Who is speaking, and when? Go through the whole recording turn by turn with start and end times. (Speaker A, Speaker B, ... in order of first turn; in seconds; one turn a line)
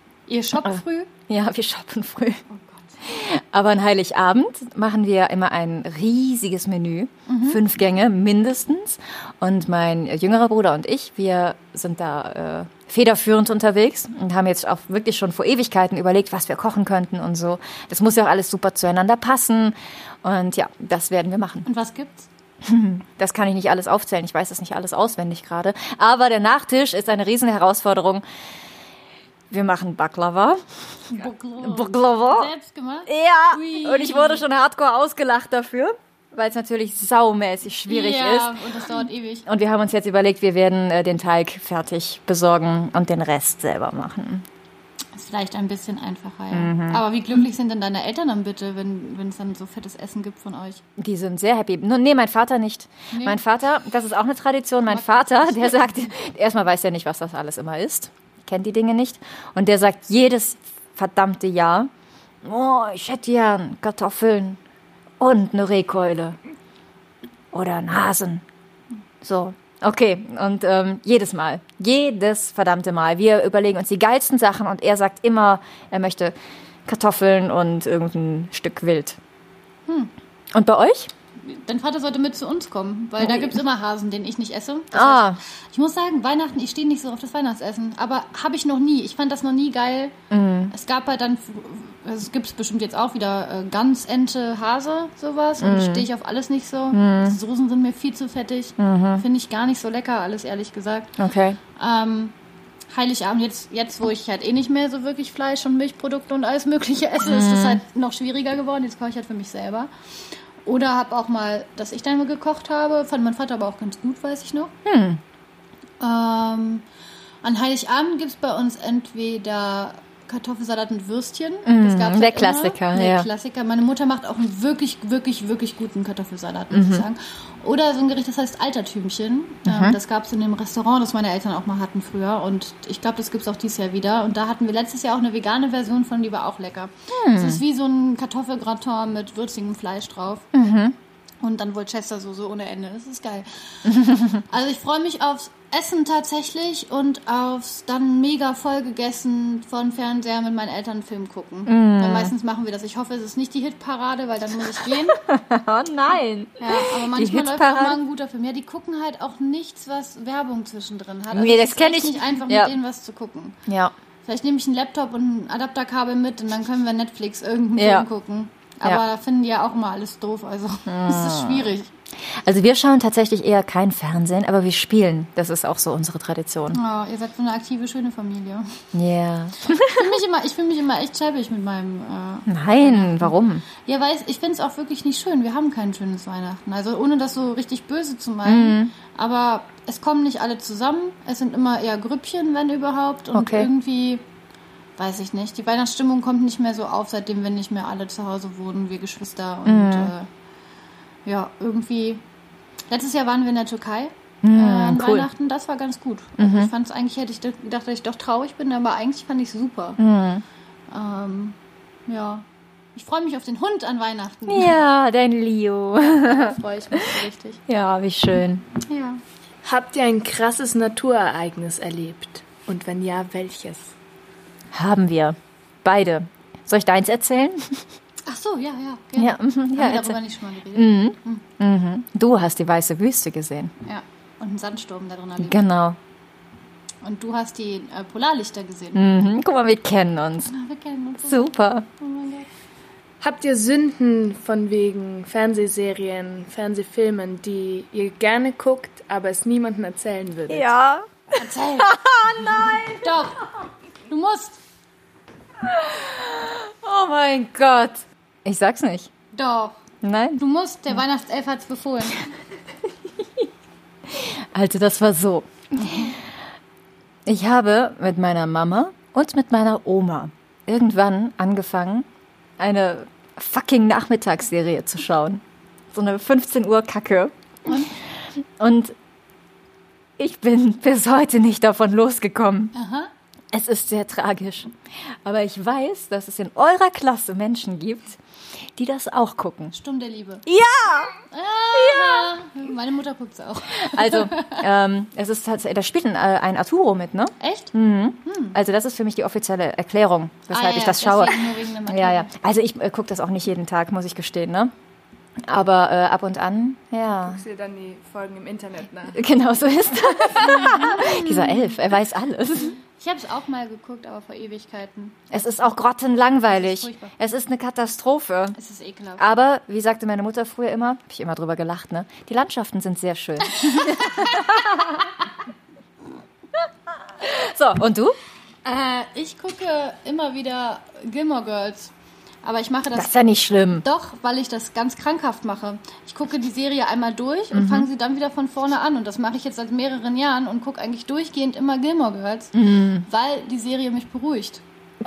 Speaker A: 0.3-1.1
Speaker B: 1.3-2.4
Speaker A: 2.5-2.9
Speaker B: 3.0-21.7
Speaker A: 7.3-7.6
Speaker A: 21.6-22.3
Speaker B: 22.6-28.2
Speaker B: 29.5-30.6
Speaker A: 31.1-34.4
Speaker B: 31.6-32.5
Speaker B: 33.1-38.6
Speaker A: 37.9-39.5
Speaker B: 39.5-44.5
Speaker A: 45.1-50.8
Speaker B: 46.5-47.0
Speaker B: 51.0-61.9
Speaker A: 53.1-53.4
Speaker A: 54.9-56.1
Speaker B: 62.4-64.6
Speaker B: 65.2-66.4
Speaker B: 67.5-68.4
Speaker B: 69.2-76.3
Speaker B: 76.9-79.2
Speaker A: 79.9-80.1
Speaker B: 80.5-81.1
Speaker A: 81.4-90.1
Speaker B: 84.9-85.4
Speaker B: 90.3-90.7
Speaker A: 90.7-101.2
Speaker B: 95.6-96.1
Speaker B: 96.9-97.4
Speaker B: 98.8-99.2
Speaker B: 101.2-101.6
Speaker A: 101.8-102.3
Speaker A: 102.9-109.9
Speaker B: 107.2-107.8
Speaker A: 110.7-114.7
Speaker B: 114.8-115.2
Speaker A: 116.0-116.8
Speaker A: 117.4-140.6
Speaker B: 121.7-123.3
Speaker B: 126.7-127.0
Speaker B: 129.7-130.0
Speaker B: 137.1-137.6
Speaker B: 140.5-141.0
Speaker A: 141.4-155.2
Speaker B: 151.7-152.3
Speaker B: 154.9-158.0
Speaker A: 156.6-163.6
Speaker B: 161.3-162.7
Speaker B: 163.7-163.9
Speaker A: 164.2-171.9
Speaker B: 167.8-168.1
Speaker B: 170.9-171.7
Speaker B: 172.3-176.8
Speaker A: 176.7-178.8
Speaker B: 178.9-180.1
Speaker A: 179.8-194.2
Speaker B: 182.5-183.6
Speaker B: 188.4-188.9
Speaker B: 193.3-193.7
Speaker A: 195.0-200.3
Speaker B: 199.7-200.1
Speaker A: 201.3-202.2
Speaker A: 202.9-210.0
Speaker B: 204.4-205.3
Speaker B: 206.4-206.7
Speaker B: 210.0-210.4
Speaker A: 210.9-214.8
Speaker B: 214.5-217.0
Speaker A: 216.0-217.6
Speaker B: 217.7-218.7
Speaker A: 218.8-219.2
Speaker C: 219.7-223.9
Speaker B: 224.7-227.8
Speaker A: 228.3-231.4
Speaker B: 229.2-230.2
Speaker B: 230.7-233.7
Speaker A: 233.8-235.7
Speaker B: 235.4-236.0
Speaker A: 237.0-239.2
Speaker B: 238.9-240.5
Speaker A: 240.5-242.5
Speaker B: 241.2-241.9
Speaker C: 243.2-250.7
Speaker B: 250.5-253.2
Speaker A: 251.3-252.0
Speaker A: 252.9-253.5
Speaker A: 254.1-254.6
Speaker B: 255.7-259.1
Speaker A: 259.3-259.8
Speaker B: 260.0-260.4
Speaker A: 260.4-262.2
Speaker B: 264.1-266.1
Speaker B: 267.3-272.1
Speaker B: 272.6-275.4
Speaker B: 275.9-277.9
Speaker A: 277.7-277.9
Speaker B: 278.6-278.9
Speaker B: 280.2-282.7
Speaker A: 282.7-283.1
Speaker B: 283.5-288.2
Speaker B: 288.8-289.8
Speaker A: 289.7-290.5
Speaker B: 290.5-291.1
Speaker A: 291.3-294.6
Speaker B: 291.7-292.3
Speaker B: 293.7-304.7
Speaker A: 297.4-298.6
Speaker A: 300.5-302.3
Speaker B: 305.4-307.4
Speaker C: 307.2-309.2
Speaker B: 309.1-312.7
Speaker A: 310.4-311.7
Speaker A: 312.6-315.4
Speaker B: 315.3-318.6
Speaker A: 316.5-317.2
Speaker A: 318.6-319.2
Speaker B: 319.2-325.1
Speaker A: 323.5-324.8
Speaker B: 327.2-328.2
Speaker A: 328.6-331.9
Speaker A: 332.4-333.1
Speaker B: 332.9-333.8
Speaker A: 333.7-344.6
Speaker B: 337.5-337.9
Speaker B: 342.6-343.1